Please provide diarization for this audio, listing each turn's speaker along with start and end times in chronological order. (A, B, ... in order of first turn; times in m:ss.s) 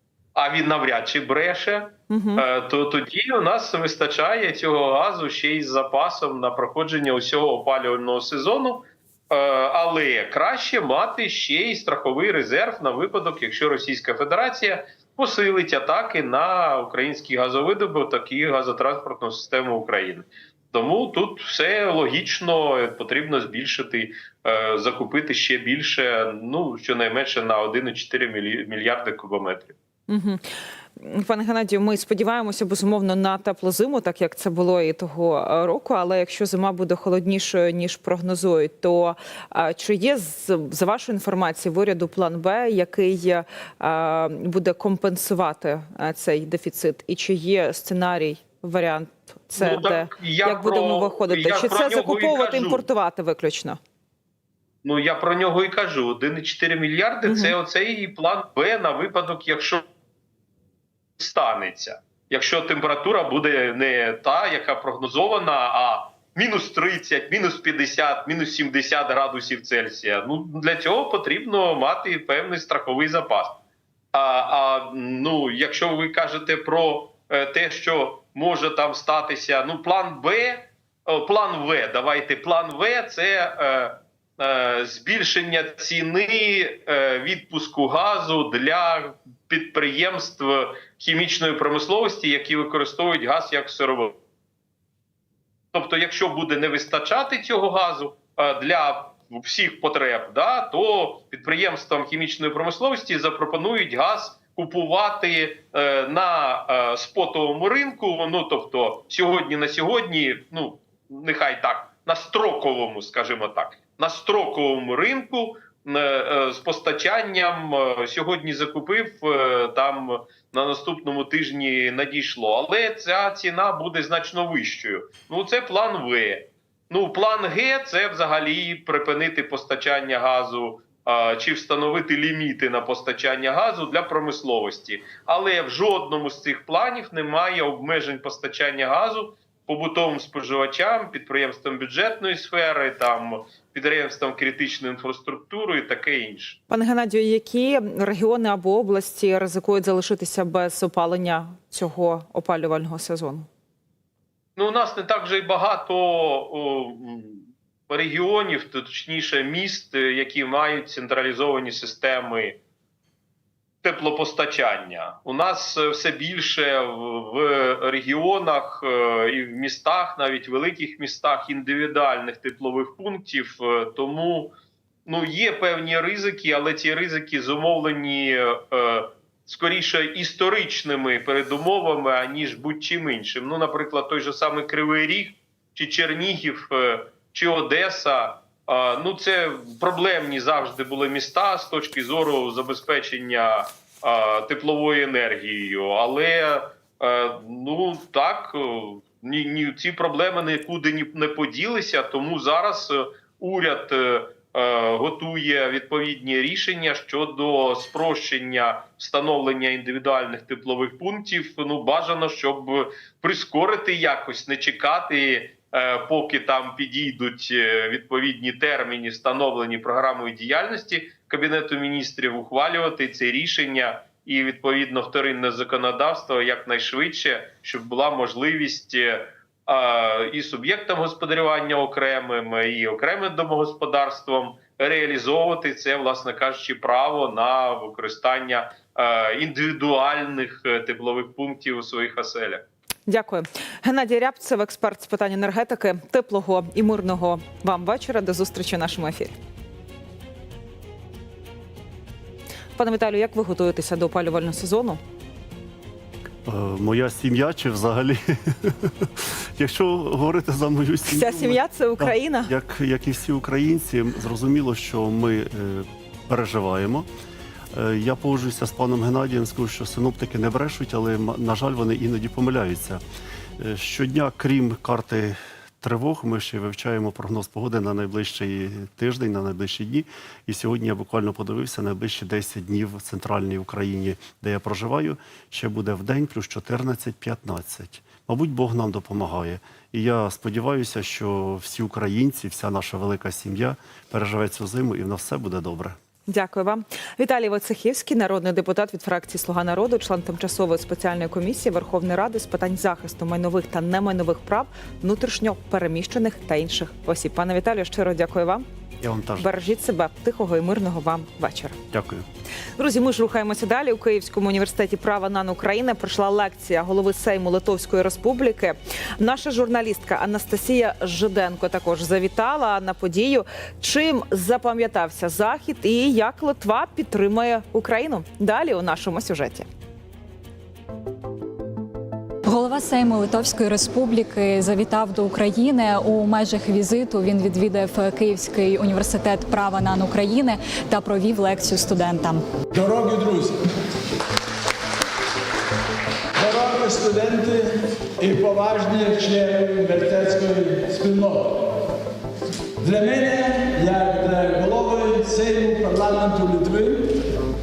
0:00.3-0:29.8 A
0:02.1-0:02.4 B
0:30.1-0:30.4 B
0:31.0-0:53.8 B
0:49.6-0:52.8 A
0:54.8-0:59.8 A
0:57.2-0:57.5 B
1:01.2-1:13.6 A
1:14.1-1:34.1 A
1:35.7-2:26.6 A
2:26.7-2:33.5 B
2:34.6-2:42.6 A
2:43.8-2:54.5 A
2:55.0-4:02.6 A
4:03.1-4:09.3 B
4:12.8-4:15.0 B
4:16.4-4:27.1 C
4:21.1-4:22.5 B
4:27.7-4:33.0 C
4:33.6-4:56.0 C
4:56.3-5:08.6 B
5:09.0-5:09.5 C
5:09.4-5:11.8 B
5:11.9-5:12.2 C
5:12.8-5:29.7 B
5:32.4-5:42.4 D
5:42.7-5:43.6 E
5:46.3-5:51.8 E
5:52.8-5:57.3 E